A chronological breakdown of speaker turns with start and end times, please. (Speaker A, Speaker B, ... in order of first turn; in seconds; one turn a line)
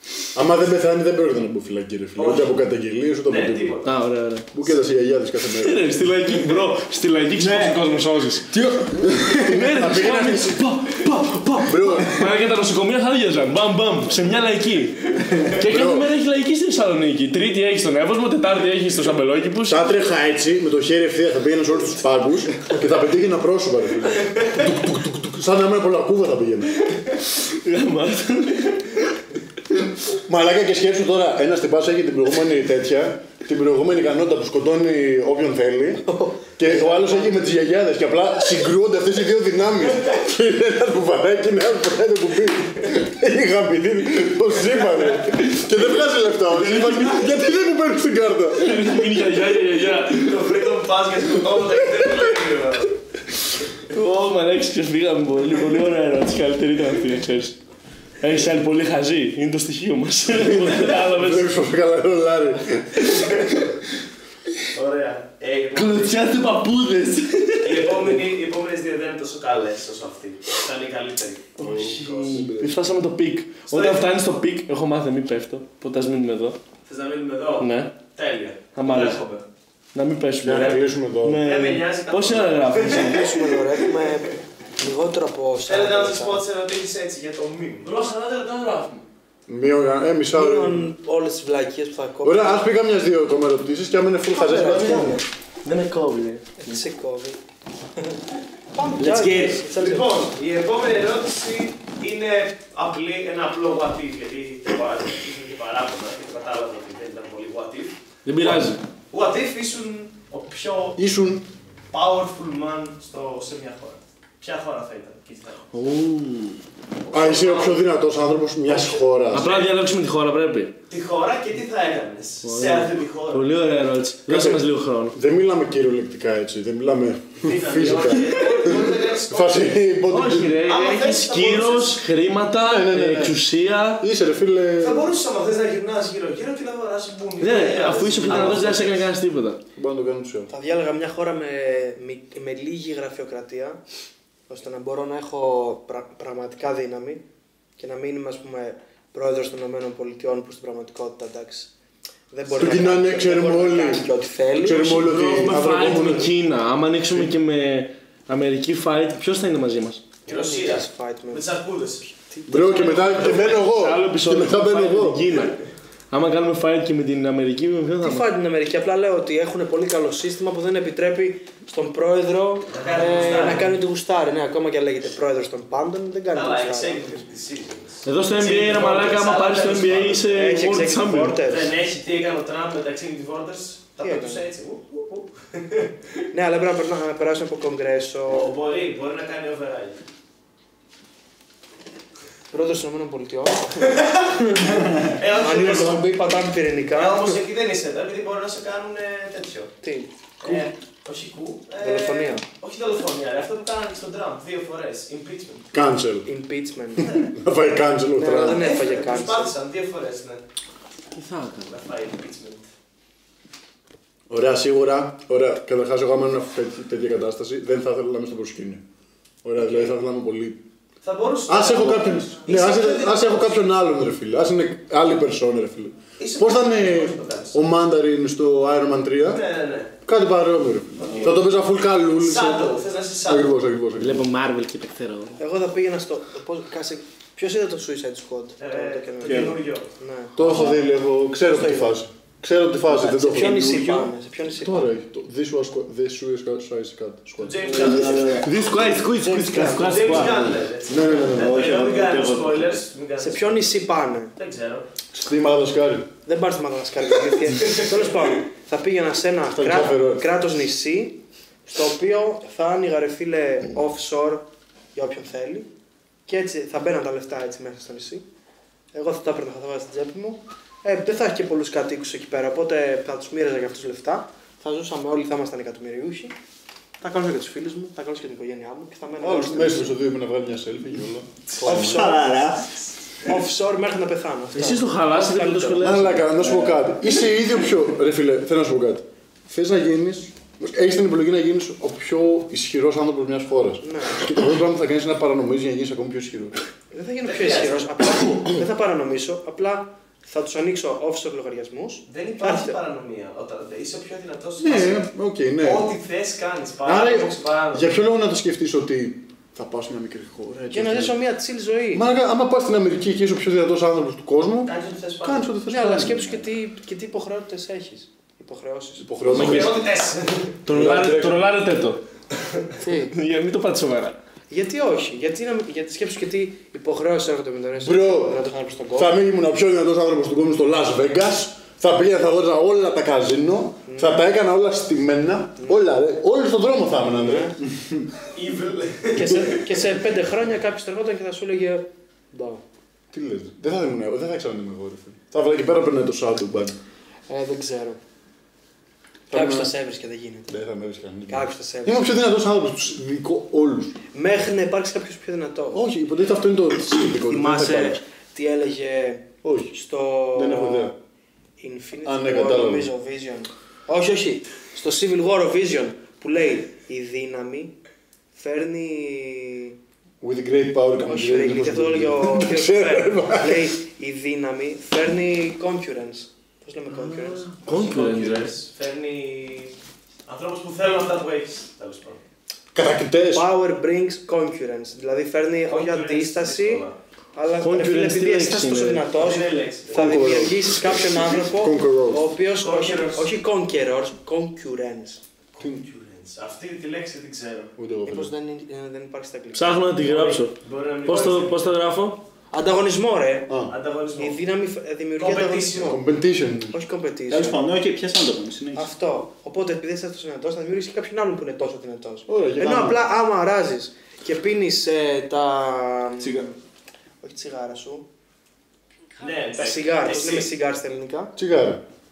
Speaker A: 0.3-3.8
Speaker B: 2.1-2.5
Speaker B: 3.2-4.0
Speaker C: 3.8-4.5
Speaker A: 4.5-6.1
Speaker C: 5.5-8.6
Speaker D: 7.3-7.8
Speaker A: 8.5-10.7
Speaker C: 9.3-19.9
Speaker A: 11.6-12.2
Speaker A: 15.6-16.1
Speaker A: 19.6-26.8
Speaker C: 27.3-29.1
Speaker A: 30.1-49.3
Speaker E: 36.1-37.5
Speaker C: 46.5-47.3
Speaker C: 48.5-50.5
Speaker B: 50.0-53.0
Speaker C: 53.8-57.6
Speaker C: 58.2-61.5
Speaker A: 60.3-63.4
Speaker B: 64.7-66.2
Speaker C: 65.7-68.2
Speaker B: 67.6-71.6
Speaker A: 71.6-72.8
Speaker C: 71.6-76.6
Speaker B: 73.7-74.1
Speaker B: 76.8-79.4
Speaker C: 77.6-77.9
Speaker C: 78.7-79.2
Speaker C: 79.9-83.3
Speaker A: 80.4-81.4
Speaker B: 81.4-84.3
Speaker E: 82.8-86.4
Speaker B: 85.7-88.0
Speaker C: 87.8-89.1
Speaker A: 89.5-90.8
Speaker E: 90.3-92.6
Speaker A: 92.2-95.2
Speaker E: 94.3-95.2
Speaker C: 94.6-96.8
Speaker E: 96.6-97.4
Speaker E: 98.7-100.3
Speaker D: 99.0-99.7
Speaker B: 99.7-111.0
Speaker C: 108.2-108.8
Speaker A: 111.0-111.5
Speaker B: 111.9-115.7
Speaker C: 115.7-116.6
Speaker B: 117.0-117.8
Speaker A: 117.1-119.5
Speaker B: 118.7-119.7
Speaker C: 119.3-120.8
Speaker B: 120.9-123.5
Speaker C: 122.4-125.2
Speaker A: 124.3-130.6
Speaker B: 127.4-129.8
Speaker C: 130.1-134.0
Speaker B: 130.6-132.0
Speaker A: 132.6-133.4
Speaker A: 134.0-135.1
Speaker B: 134.8-139.1
Speaker C: 137.4-139.6
Speaker A: 138.3-138.7
Speaker A: 139.8-140.5
Speaker E: 140.5-143.8
Speaker E: 144.5-147.2
Speaker E: 147.8-151.7
Speaker E: 152.3-155.0
Speaker A: 152.5-156.3
Speaker C: 154.8-160.0
Speaker B: 160.2-162.1
Speaker E: 160.3-161.5
Speaker E: 162.1-163.2
Speaker A: 162.5-165.4
Speaker B: 162.9-163.5
Speaker C: 163.2-168.2
Speaker E: 168.0-177.2
Speaker B: 172.7-173.7
Speaker B: 176.3-180.6
Speaker C: 178.0-181.4
Speaker E: 180.3-181.7
Speaker B: 181.4-185.9
Speaker E: 184.0-184.5
Speaker E: 186.3-188.5
Speaker B: 188.3-190.0
Speaker E: 192.5-197.4
Speaker B: 193.8-196.1
Speaker B: 196.9-199.7
Speaker E: 199.8-200.6
Speaker B: 200.4-205.7
Speaker E: 201.8-202.4
Speaker A: 205.7-206.3
Speaker E: 206.2-207.2
Speaker A: 207.1-208.7
Speaker E: 208.2-209.5
Speaker B: 208.3-210.4
Speaker C: 211.1-211.7
Speaker B: 211.7-212.7
Speaker A: 214.3-218.8
Speaker A: 219.4-220.6
Speaker B: 219.6-219.9
Speaker B: 221.0-223.6
Speaker A: 221.5-229.4
Speaker B: 226.2-227.6
Speaker B: 229.2-229.9
Speaker A: 230.0-234.3
Speaker B: 231.0-231.4
Speaker D: 231.0-231.3
Speaker B: 232.2-233.5
Speaker C: 234.0-235.4
Speaker E: 235.4-240.8
Speaker B: 238.6-239.9
Speaker D: 239.2-239.6
Speaker A: 240.3-244.0
Speaker E: 241.4-241.9
Speaker E: 242.9-244.9
Speaker A: 244.6-247.8
Speaker B: 247.4-248.4
Speaker D: 247.7-248.6
Speaker C: 248.4-250.6
Speaker E: 249.0-250.2
Speaker B: 249.7-253.8
Speaker A: 250.2-251.7
Speaker D: 251.3-252.8
Speaker E: 253.2-254.3
Speaker B: 254.4-254.8
Speaker A: 255.1-256.1
Speaker E: 256.2-265.7
Speaker B: 257.6-257.9
Speaker A: 259.5-260.2
Speaker E: 266.3-268.2
Speaker E: 268.9-276.3
Speaker E: 277.0-280.0
Speaker A: 279.2-282.1
Speaker E: 281.6-282.4
Speaker D: 281.6-282.7
Speaker E: 283.2-286.0
Speaker C: 284.5-286.5
Speaker A: 285.8-296.6
Speaker E: 293.8-294.3
Speaker E: 296.9-302.8
Speaker B: 297.2-298.0
Speaker B: 302.1-307.9
Speaker A: 304.6-305.9
Speaker A: 306.8-311.2
Speaker E: 310.7-312.1
Speaker A: 311.9-316.5
Speaker B: 314.6-315.5
Speaker E: 315.6-319.4
Speaker A: 319.0-319.8
Speaker C: 319.3-319.8
Speaker B: 319.3-320.6
Speaker C: 320.6-322.0
Speaker A: 320.7-321.5
Speaker E: 322.8-323.1
Speaker C: 322.9-324.2
Speaker E: 324.5-329.1
Speaker A: 327.8-328.4
Speaker A: 328.9-337.6
Speaker E: 333.9-334.2
Speaker E: 337.1-337.6
Speaker D: 337.7-338.0
Speaker B: 338.3-339.8
Speaker E: 339.1-342.6
Speaker A: 343.1-346.8
Speaker E: 347.3-348.0
Speaker E: 349.3-350.5
Speaker A: 349.3-349.7
Speaker A: 350.5-354.0
Speaker E: 351.3-352.1
Speaker E: 354.1-355.8
Speaker A: 355.7-358.0
Speaker E: 357.2-360.9
Speaker A: 359.4-359.7
Speaker A: 360.3-360.9
Speaker E: 361.6-367.8
Speaker A: 362.0-362.9
Speaker E: 368.3-369.8
Speaker A: 370.2-373.7
Speaker E: 371.0-377.5
Speaker C: 376.9-378.6
Speaker B: 377.6-379.7
Speaker B: 380.2-382.2
Speaker A: 382.7-383.5
Speaker E: 383.3-395.2
Speaker B: 385.7-387.0
Speaker C: 387.6-389.1
Speaker B: 389.1-390.4
Speaker A: 389.9-392.3
Speaker B: 392.6-393.3
Speaker B: 395.5-397.7
Speaker A: 397.8-398.3
Speaker E: 398.1-400.4
Speaker C: 399.5-402.2
Speaker B: 400.6-401.8
Speaker E: 402.5-403.5
Speaker A: 403.5-403.7
Speaker B: 403.7-404.4
Speaker E: 404.2-406.0
Speaker B: 405.2-406.0
Speaker A: 405.8-406.8
Speaker E: 406.7-407.6
Speaker D: 407.3-408.9
Speaker E: 408.7-416.6
Speaker A: 412.3-413.0
Speaker D: 416.2-416.5
Speaker E: 417.2-418.1
Speaker B: 419.2-420.5
Speaker E: 419.5-421.3
Speaker A: 421.4-421.8